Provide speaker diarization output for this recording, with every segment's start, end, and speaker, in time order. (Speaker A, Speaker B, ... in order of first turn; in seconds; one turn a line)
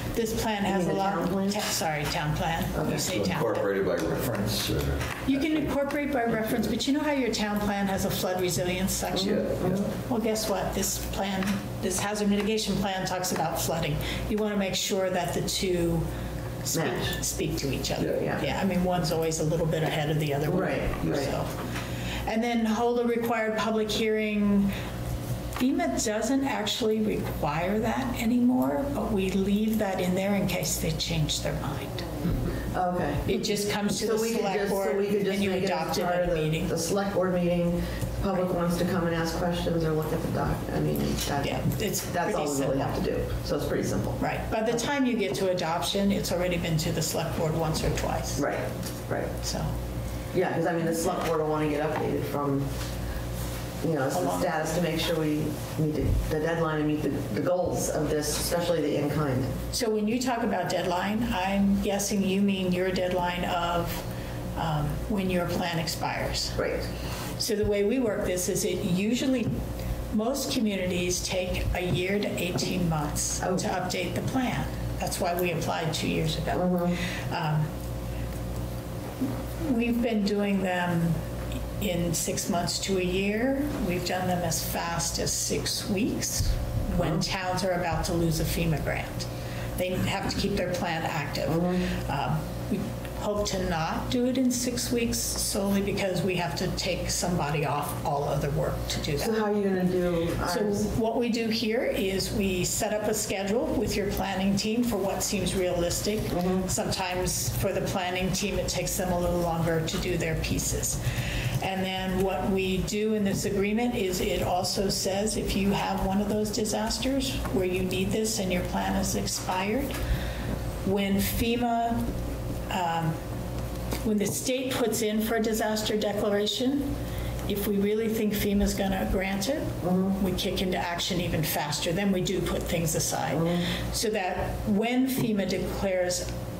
Speaker A: 0.1-3.7
Speaker B: 0.7-1.6
Speaker B: 2.7-3.1
Speaker C: 2.9-5.7
Speaker A: 5.3-16.1
Speaker C: 6.3-6.7
Speaker B: 9.1-9.9
Speaker C: 9.2-9.9
Speaker A: 16.6-21.6
Speaker B: 16.7-17.2
Speaker B: 18.1-18.5
Speaker B: 20.4-21.4
Speaker C: 21.0-21.3
Speaker A: 22.3-24.7
Speaker A: 25.6-32.0
Speaker B: 32.7-44.8
Speaker A: 33.3-36.7
Speaker A: 41.4-43.0
Speaker A: 44.2-48.5
Speaker B: 48.4-49.3
Speaker A: 49.4-49.7
Speaker B: 50.3-52.7
Speaker B: 53.8-59.5
Speaker A: 54.1-54.7
Speaker A: 59.7-64.0
Speaker A: 64.6-66.6
Speaker B: 66.6-66.9
Speaker A: 67.4-69.5
Speaker A: 70.1-76.7
Speaker B: 73.4-73.7
Speaker B: 76.5-77.0
Speaker A: 77.3-77.7
Speaker A: 79.6-81.2
Speaker A: 81.8-99.5
Speaker B: 87.0-87.2
Speaker B: 91.5-91.8
Speaker B: 99.2-100.9
Speaker A: 100.5-111.0
Speaker B: 106.3-106.7
Speaker A: 111.6-119.9
Speaker A: 120.8-122.0
Speaker A: 122.7-123.2
Speaker A: 124.0-126.9
Speaker A: 127.5-136.3
Speaker B: 129.8-130.2
Speaker B: 133.3-133.7